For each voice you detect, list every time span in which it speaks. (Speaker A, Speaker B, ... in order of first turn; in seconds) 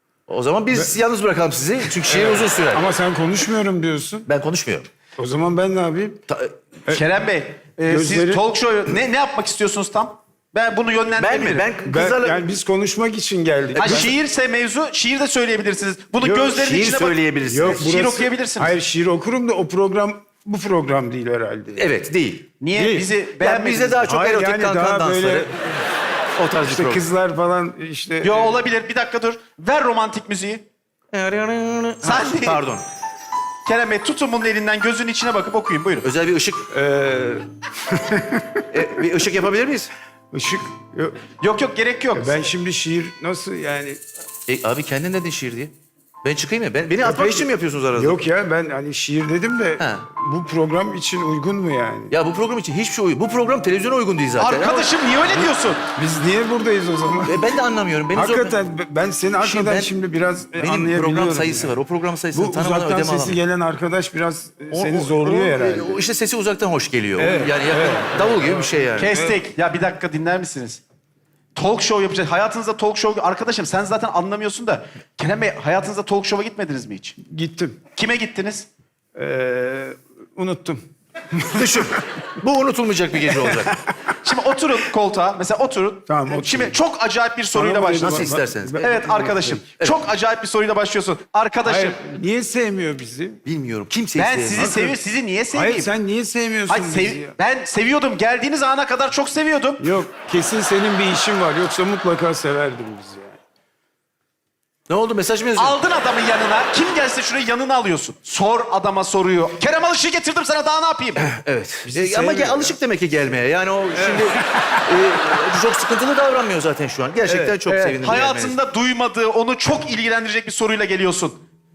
Speaker A: 0.3-2.9, 4.3-4.9, 6.3-6.5, 11.2-12.4, 13.7-14.1, 16.3-17.9, 21.8-22.6, 23.4-25.7, 26.4-27.1, 31.1-32.8, 36.0-36.7, 38.7-39.9, 44.5-45.7, 46.2-48.2, 49.8-50.0, 52.1-54.9, 57.2-58.6, 59.4-59.9, 60.5-63.4, 64.7-69.2, 81.5-83.7, 88.0-88.9, 93.4-94.7, 104.9-105.8, 111.2-118.6
Speaker B: 2.1-4.3, 5.2-6.2, 7.9-8.4, 11.8-14.1, 17.5-21.9, 22.7-23.1, 24.0-25.5, 26.6-28.5, 36.7-38.6, 40.3-41.2, 42.1-44.0, 47.0-52.1, 55.9-57.5, 58.1-61.8, 62.3-66.0, 67.2-69.4, 77.3-77.8, 79.2-80.8, 81.3-82.0, 83.3-83.8, 86.1-86.8, 87.5-89.6, 91.6-93.4, 94.5-95.0, 95.5-97.3, 99.8-103.4, 111.8-112.8, 114.0-114.3, 117.2-117.6
Speaker C: 6.9-11.6, 13.8-18.7, 22.6-24.0, 28.2-30.6, 32.0-32.6, 33.6-36.0, 41.4-42.4, 54.4-55.8, 69.0-70.8, 71.5-77.2, 78.0-78.7, 84.2-92.0, 94.2-95.9, 96.7-99.9, 105.5-111.3, 117.7-121.4